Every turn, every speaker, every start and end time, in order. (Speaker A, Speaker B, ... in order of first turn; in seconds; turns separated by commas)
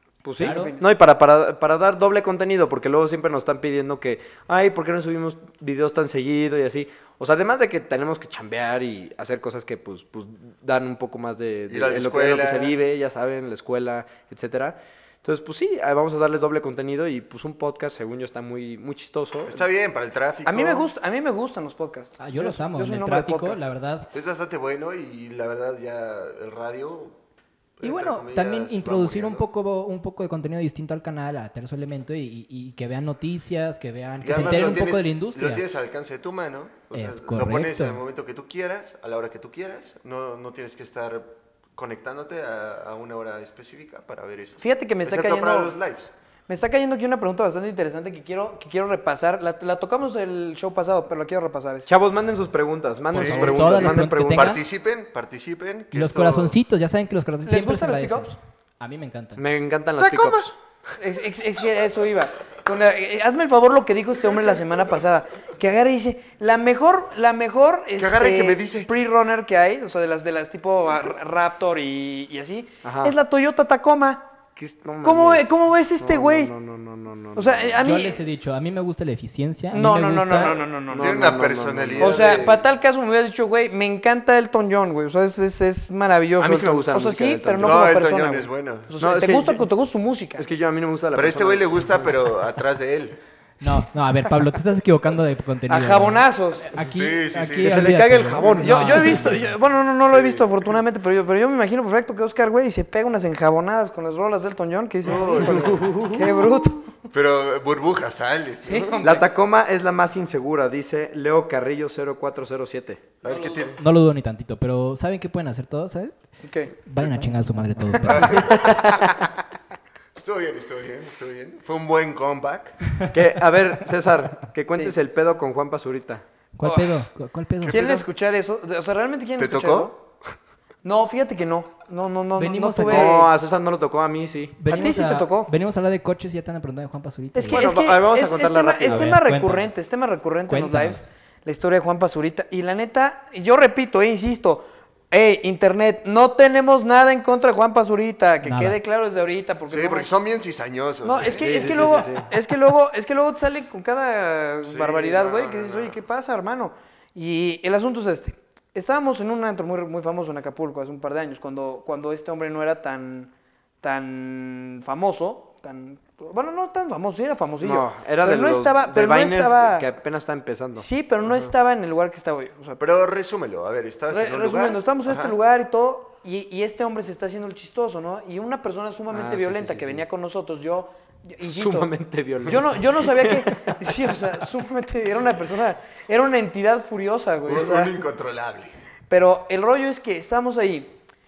Speaker A: 0.2-19.6, Speaker B: 0.4-0.9, Speaker C: 0.4-0.7, Speaker D: 11.7-12.8, Speaker D: 19.5-20.9, Speaker B: 20.4-23.7, Speaker C: 22.2-24.1, Speaker D: 24.1-27.2, Speaker D: 27.8-29.5, Speaker C: 27.8-35.6, Speaker D: 34.2-46.1, Speaker C: 36.9-38.0, Speaker B: 44.6-45.7, Speaker B: 46.5-51.9, Speaker A: 51.9-54.6, Speaker C: 53.1-54.6, Speaker D: 53.1-56.5, Speaker C: 55.9-59.4, Speaker B: 57.4-58.3, Speaker A: 59.4-60.5, Speaker D: 60.0-60.5, Speaker B: 61.0-74.3, Speaker D: 68.0-68.9, Speaker A: 72.8-73.2, Speaker A: 74.6-75.5, Speaker B: 75.0-76.5, Speaker A: 76.0-77.8, Speaker B: 77.3-78.2, Speaker C: 77.8-80.6, Speaker B: 79.7-81.2, Speaker A: 80.9-82.4, Speaker D: 81.0-82.7, Speaker B: 82.0-90.4, Speaker A: 86.4-87.8, Speaker D: 87.6-88.9, Speaker A: 89.0-89.7, Speaker A: 90.4-92.1, Speaker D: 91.1-93.2, Speaker C: 93.6-99.5, Speaker B: 95.7-96.7, Speaker D: 96.8-99.4, Speaker A: 97.6-99.2, Speaker B: 98.6-106.9, Speaker D: 100.1-100.7, Speaker D: 105.0-106.0, Speaker A: 105.2-106.7, Speaker D: 107.1-109.0, Speaker B: 108.7-109.3, Speaker A: 109.0-113.7, Speaker D: 113.2-113.8, Speaker C: 113.8-118.7, Speaker B: 116.4-116.8, Speaker B: 117.9-118.5, Speaker D: 118.0-118.7, Speaker A: 118.3-119.2, Speaker D: 120.2-122.7, Speaker A: 123.1-126.2, Speaker C: 126.5-128.0, Speaker B: 126.6-126.9, Speaker D: 127.6-128.0, Speaker B: 127.7-129.9, Speaker D: 129.4-130.0, Speaker B: 130.8-133.3, Speaker C: 132.4-133.3, Speaker A: 132.8-134.6, Speaker C: 134.6-137.7, Speaker B: 134.7-135.5, Speaker B: 137.3-150.1, Speaker A: 137.5-139.2, Speaker C: 138.8-139.8, Speaker C: 140.5-141.1, Speaker C: 148.4-148.8, Speaker D: 149.7-152.1, Speaker B: 151.0-163.3, Speaker A: 151.3-152.3, Speaker D: 154.6-156.0, Speaker B: 163.8-169.9, Speaker A: 167.6-171.4, Speaker B: 170.8-172.8, Speaker D: 172.8-175.3, Speaker B: 174.1-181.9, Speaker A: 179.1-180.0, Speaker A: 181.4-183.8, Speaker B: 182.5-187.9, Speaker D: 187.5-188.7, Speaker B: 189.1-191.0